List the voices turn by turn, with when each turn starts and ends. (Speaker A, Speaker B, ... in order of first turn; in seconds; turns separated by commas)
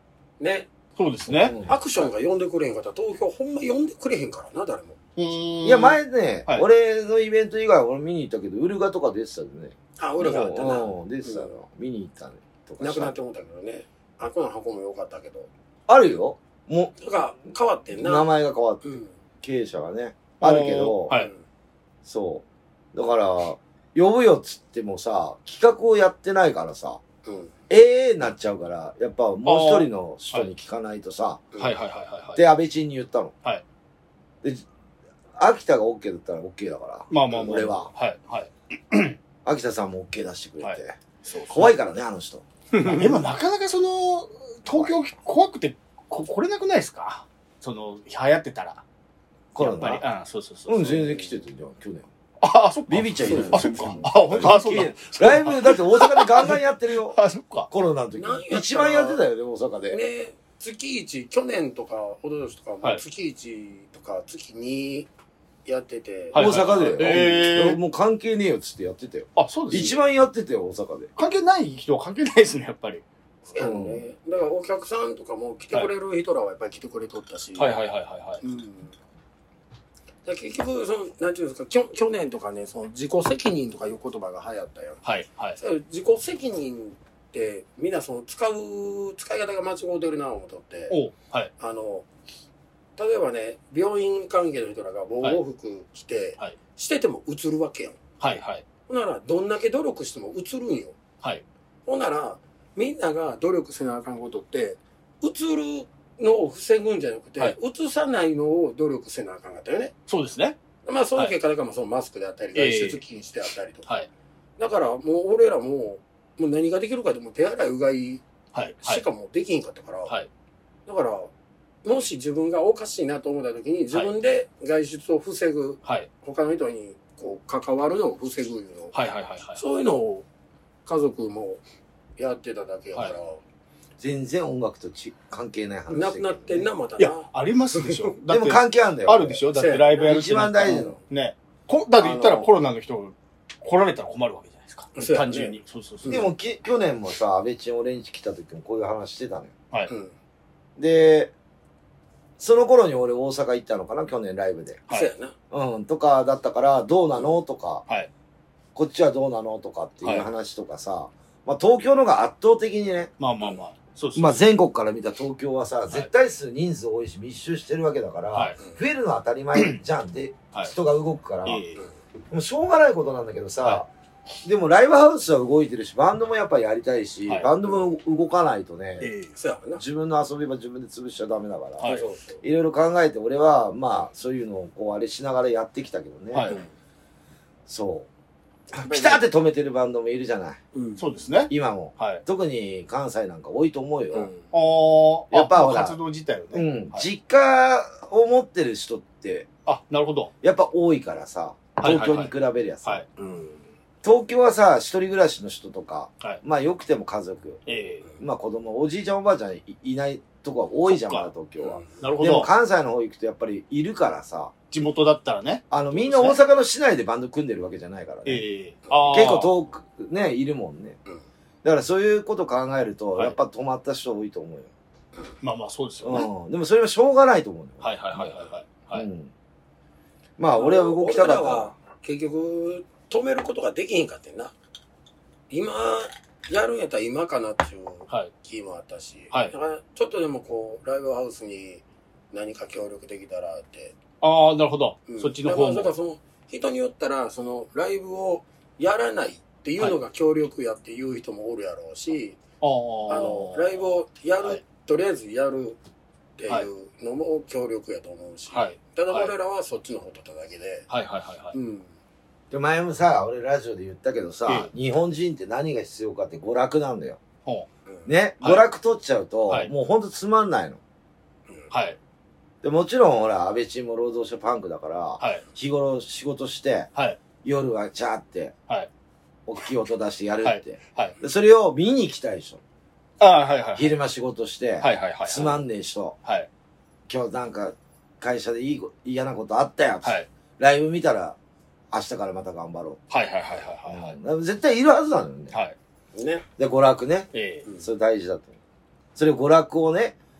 Speaker A: 0.4-0.7, Speaker B: 1.0-1.6, Speaker C: 1.3-1.8, Speaker A: 1.6-5.0, Speaker B: 5.2-6.7, Speaker C: 5.6-13.2, Speaker A: 10.0-11.5, Speaker A: 12.8-15.5, Speaker C: 15.9-16.9, Speaker A: 17.0-18.3, Speaker C: 18.0-21.2, Speaker A: 18.8-19.1, Speaker B: 20.4-21.3, Speaker A: 21.1-21.4, Speaker C: 22.1-27.0, Speaker A: 27.2-27.5, Speaker C: 27.7-31.4, Speaker B: 29.4-30.5, Speaker B: 31.6-32.4, Speaker C: 32.4-33.3, Speaker C: 35.4-37.9, Speaker B: 37.1-39.2, Speaker C: 39.5-41.0, Speaker A: 41.2-41.8, Speaker C: 41.5-42.5, Speaker A: 42.7-43.2, Speaker B: 42.9-48.8, Speaker C: 44.7-45.0, Speaker C: 49.5-50.0, Speaker B: 49.6-51.1, Speaker C: 50.7-52.1, Speaker B: 52.4-57.7, Speaker C: 52.9-57.2, Speaker A: 53.2-53.6, Speaker C: 57.7-60.0, Speaker A: 58.2-59.2, Speaker A: 59.9-65.1, Speaker A: 65.7-67.0, Speaker B: 66.3-67.8, Speaker C: 66.3-71.1, Speaker B: 69.4-70.0, Speaker B: 71.2-73.0, Speaker A: 73.5-77.8, Speaker C: 73.6-74.0, Speaker B: 77.6-78.4, Speaker A: 78.4-78.9, Speaker A: 80.3-85.0, Speaker B: 85.0-85.6, Speaker A: 85.6-91.0, Speaker B: 90.9-91.5, Speaker A: 91.6-92.1, Speaker A: 93.0-98.0, Speaker B: 98.2-98.6, Speaker A: 98.9-101.0, Speaker A: 101.9-109.9, Speaker B: 110.1-110.6, Speaker A: 110.9-113.9, Speaker B: 112.5-113.0, Speaker A: 114.6-118.2, Speaker B: 118.5-119.0, Speaker A: 118.8-120.1, Speaker A: 120.9-121.3, Speaker A: 121.8-128.9, Speaker B: 128.9-129.6, Speaker A: 129.6-130.3, Speaker A: 130.9-131.6, Speaker A: 132.2-133.4, Speaker C: 134.0-136.7, Speaker A: 135.9-138.1, Speaker B: 137.0-146.3, Speaker C: 138.3-139.4, Speaker A: 139.5-140.1, Speaker C: 140.0-141.0, Speaker A: 140.6-141.0, Speaker A: 142.0-142.5, Speaker A: 144.9-146.3, Speaker C: 146.1-149.5, Speaker C: 150.8-151.3, Speaker C: 152.4-154.8, Speaker A: 154.9-155.3, Speaker C: 155.5-157.8, Speaker C: 158.8-163.1, Speaker B: 160.0-160.3, Speaker B: 163.2-164.4, Speaker C: 164.2-171.6, Speaker B: 168.3-168.6, Speaker B: 171.4-171.8, Speaker C: 172.3-173.9, Speaker C: 174.4-179.1, Speaker B: 179.0-179.3, Speaker A: 179.4-179.8, Speaker C: 179.8-186.5, Speaker A: 181.8-182.4, Speaker B: 186.3-186.6, Speaker C: 187.7-188.1, Speaker C: 188.7-190.6, Speaker A: 188.8-189.2, Speaker A: 190.7-191.1, Speaker B: 191.0-192.2, Speaker C: 191.5-194.3, Speaker A: 194.1-194.4, Speaker B: 194.5-197.1, Speaker C: 195.3-196.0, Speaker C: 196.5-199.5, Speaker B: 199.7-200.3, Speaker C: 200.4-203.0, Speaker B: 201.8-202.3, Speaker A: 203.2-203.6, Speaker C: 204.0-207.6, Speaker B: 207.7-208.1, Speaker C: 208.2-214.5, Speaker B: 210.9-211.3, Speaker A: 211.6-211.9, Speaker B: 212.0-212.5, Speaker B: 214.7-216.4, Speaker C: 215.7-218.4, Speaker B: 218.3-219.5, Speaker C: 219.1-221.0, Speaker C: 221.6-224.7, Speaker B: 225.4-226.3, Speaker C: 226.0-228.3, Speaker B: 227.8-229.1, Speaker C: 228.9-229.3, Speaker C: 230.4-231.7, Speaker A: 230.5-234.5, Speaker A: 235.5-244.0, Speaker B: 244.2-245.9, Speaker A: 245.1-252.4, Speaker B: 252.6-254.6, Speaker A: 253.1-255.8, Speaker A: 256.4-260.9, Speaker B: 258.5-259.3, Speaker B: 260.9-261.6, Speaker A: 261.5-261.9, Speaker C: 262.5-267.2, Speaker C: 268.1-270.8, Speaker B: 268.4-268.7, Speaker B: 271.7-272.0, Speaker C: 272.6-276.9, Speaker C: 277.4-278.6, Speaker C: 279.5-282.6, Speaker B: 280.4-281.1, Speaker B: 283.2-283.9, Speaker C: 283.8-286.2, Speaker B: 284.8-285.6, Speaker C: 287.1-291.4, Speaker B: 290.0-290.3, Speaker C: 291.9-293.0, Speaker B: 293.1-294.2, Speaker C: 293.9-295.6, Speaker A: 296.1-296.5, Speaker C: 296.6-298.6, Speaker B: 297.3-297.6, Speaker C: 299.2-300.1